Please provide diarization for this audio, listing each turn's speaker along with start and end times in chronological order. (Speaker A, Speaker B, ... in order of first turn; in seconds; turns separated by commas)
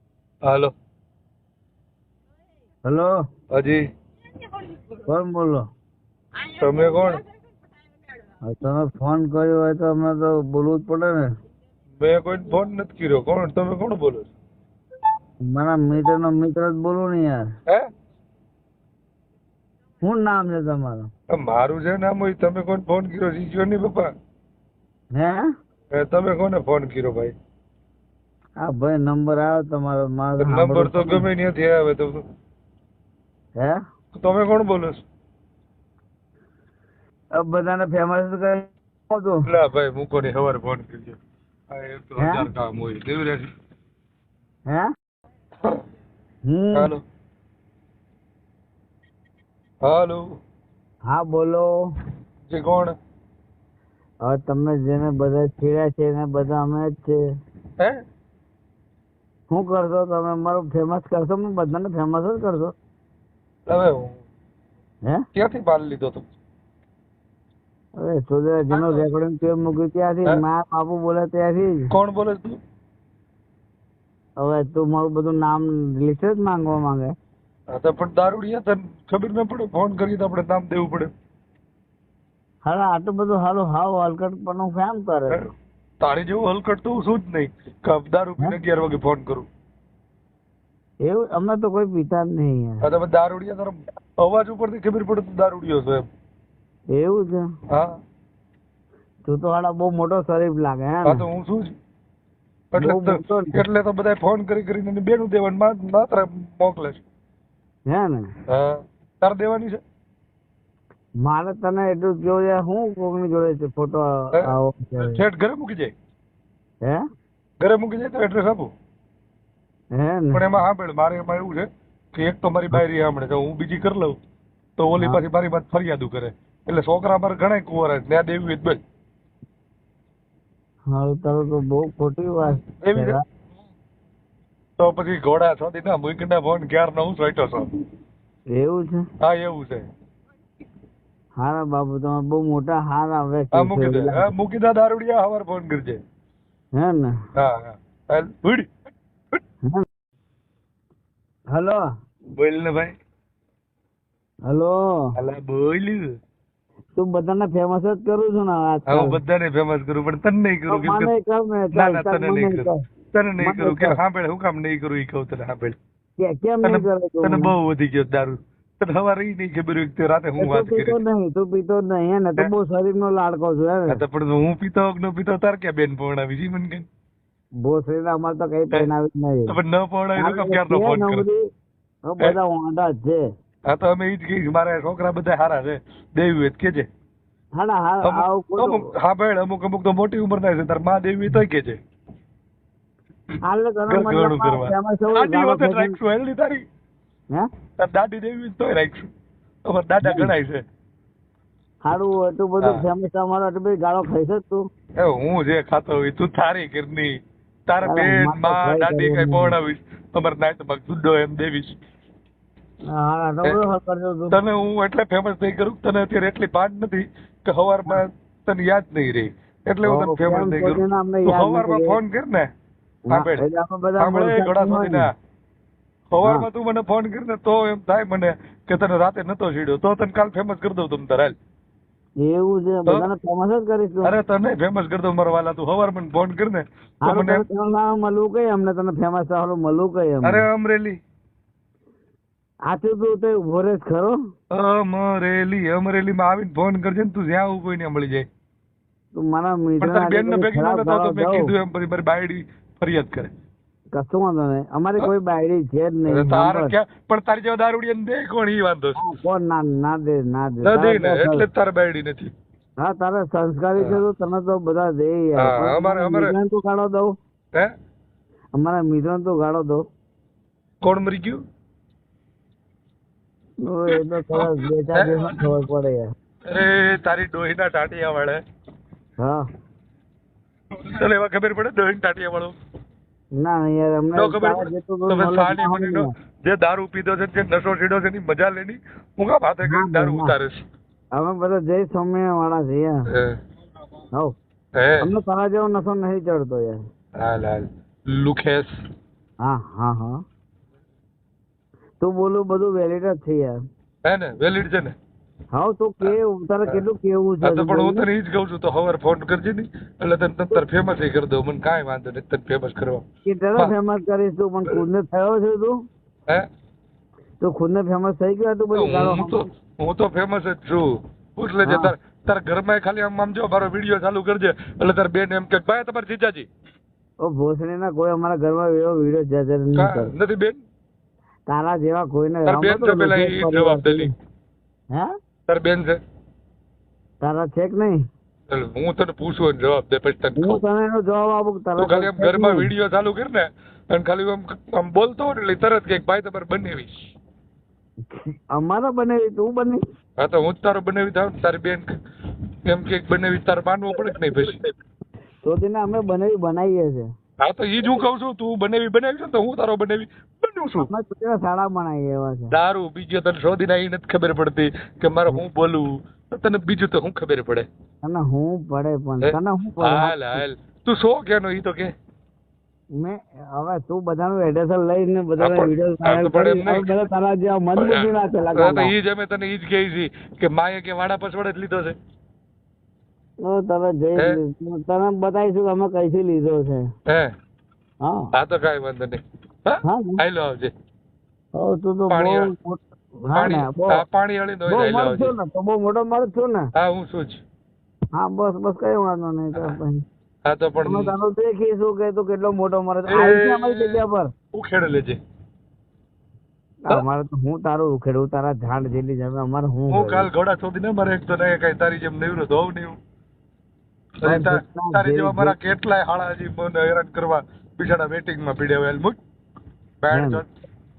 Speaker A: 0.4-0.7, Speaker B: 2.9-3.1, Speaker A: 3.5-3.8, Speaker B: 5.1-5.6, Speaker A: 6.5-7.2, Speaker B: 8.4-11.3, Speaker A: 12.0-14.3, Speaker B: 15.5-17.4, Speaker B: 20.0-21.1, Speaker A: 21.3-24.1, Speaker B: 25.1-25.4, Speaker A: 25.9-27.3, Speaker B: 28.6-31.2, Speaker A: 30.4-32.2, Speaker A: 34.1-35.0, Speaker B: 37.4-39.4, Speaker A: 39.5-41.2, Speaker A: 41.7-43.5, Speaker B: 42.2-42.5, Speaker B: 46.5-46.9, Speaker A: 46.7-47.0, Speaker A: 49.8-50.2, Speaker B: 51.1-51.7, Speaker A: 52.5-52.9, Speaker B: 54.2-57.2, Speaker B: 59.5-62.7, Speaker A: 63.7-64.2, Speaker A: 65.3-66.3, Speaker B: 68.0-71.9, Speaker A: 68.7-69.0, Speaker A: 71.9-72.6, Speaker B: 74.4-77.1, Speaker A: 77.7-81.1, Speaker B: 82.6-85.4, Speaker A: 86.0-89.5, Speaker B: 91.0-92.8, Speaker A: 92.8-96.0, Speaker B: 96.9-97.4, Speaker B: 99.2-101.2, Speaker A: 101.0-101.7, Speaker A: 102.7-107.0, Speaker B: 102.8-103.6, Speaker B: 107.9-108.3, Speaker A: 108.5-109.8, Speaker B: 111.2-115.2, Speaker A: 114.4-115.9, Speaker A: 117.6-118.7, Speaker B: 120.0-120.4, Speaker A: 120.3-124.2, Speaker A: 124.8-128.8, Speaker B: 130.9-133.2, Speaker A: 132.8-133.2, Speaker A: 134.8-137.7, Speaker B: 138.5-139.0, Speaker A: 139.2-139.8, Speaker B: 141.4-144.3, Speaker A: 143.5-146.0, Speaker B: 146.8-147.1, Speaker A: 147.3-148.7, Speaker B: 151.5-151.8, Speaker A: 152.4-152.9, Speaker B: 154.5-154.8, Speaker A: 155.2-156.1, Speaker B: 156.9-159.2, Speaker A: 158.9-161.1, Speaker B: 160.7-162.8, Speaker A: 161.7-165.8, Speaker B: 163.4-164.0, Speaker B: 166.2-167.5, Speaker A: 166.6-171.0, Speaker B: 170.4-174.0, Speaker A: 173.9-176.8, Speaker B: 177.6-179.5, Speaker A: 179.5-181.3, Speaker B: 180.2-181.4, Speaker B: 182.1-183.2, Speaker A: 183.7-186.9, Speaker B: 187.6-188.9, Speaker A: 188.0-191.8, Speaker B: 193.4-196.0, Speaker A: 193.9-196.6, Speaker A: 197.8-199.1, Speaker A: 199.7-200.6, Speaker B: 200.0-200.3, Speaker B: 201.8-204.6, Speaker A: 205.0-207.1, Speaker A: 207.7-211.8, Speaker B: 207.8-209.6, Speaker B: 212.9-214.4, Speaker A: 214.3-222.5, Speaker B: 219.8-222.0, Speaker B: 223.1-225.1, Speaker A: 223.1-223.4, Speaker A: 224.0-225.1, Speaker A: 226.1-231.3, Speaker B: 232.2-234.1, Speaker A: 234.0-237.4, Speaker B: 237.0-240.4, Speaker A: 240.2-240.9, Speaker B: 242.7-244.2, Speaker A: 244.5-248.2, Speaker B: 249.1-251.5, Speaker A: 249.8-253.3, Speaker B: 253.9-256.8, Speaker A: 256.1-259.0, Speaker B: 259.0-261.4, Speaker A: 260.6-262.3, Speaker B: 262.8-267.1, Speaker A: 265.4-266.4, Speaker B: 268.6-269.8, Speaker A: 270.8-271.4, Speaker B: 273.6-276.0, Speaker A: 273.9-275.5, Speaker A: 276.5-278.4, Speaker B: 279.2-279.4, Speaker A: 280.9-282.5, Speaker B: 283.4-286.1, Speaker A: 284.1-290.6, Speaker B: 289.7-290.4, Speaker B: 291.1-293.1, Speaker A: 294.8-295.1, Speaker B: 295.0-296.8, Speaker A: 297.2-298.7, Speaker B: 299.4-300.2, Speaker B: 302.0-303.6, Speaker A: 304.0-304.9, Speaker B: 305.5-308.1, Speaker A: 306.0-306.8, Speaker A: 307.4-313.0, Speaker B: 313.2-315.8, Speaker B: 317.4-319.4, Speaker A: 318.7-326.5, Speaker B: 321.6-321.9, Speaker B: 327.2-330.1, Speaker A: 329.8-330.6, Speaker B: 331.5-334.1, Speaker A: 332.4-334.1, Speaker A: 335.5-336.0, Speaker B: 337.2-338.0, Speaker A: 338.5-340.6, Speaker B: 340.4-342.7, Speaker A: 341.8-346.9, Speaker B: 348.1-349.8, Speaker A: 350.2-351.9, Speaker A: 352.7-354.6, Speaker B: 355.4-357.1, Speaker A: 357.4-360.9, Speaker B: 360.8-362.5, Speaker A: 362.5-367.6, Speaker B: 368.0-370.4, Speaker A: 369.2-371.9, Speaker B: 373.0-378.9, Speaker A: 375.4-376.9, Speaker A: 377.8-381.9, Speaker B: 383.4-386.8, Speaker B: 388.0-388.3, Speaker A: 388.3-390.7, Speaker B: 389.8-390.2, Speaker B: 391.5-394.0, Speaker A: 392.1-392.5, Speaker A: 393.3-395.3, Speaker B: 394.7-396.7, Speaker A: 396.7-397.4, Speaker B: 398.1-400.0, Speaker A: 400.4-401.1, Speaker B: 400.8-404.3, Speaker A: 403.1-404.0, Speaker A: 404.5-405.2, Speaker B: 406.9-410.3, Speaker A: 409.9-412.9, Speaker A: 414.2-419.2, Speaker B: 414.2-415.6, Speaker A: 420.0-420.5, Speaker B: 420.1-420.4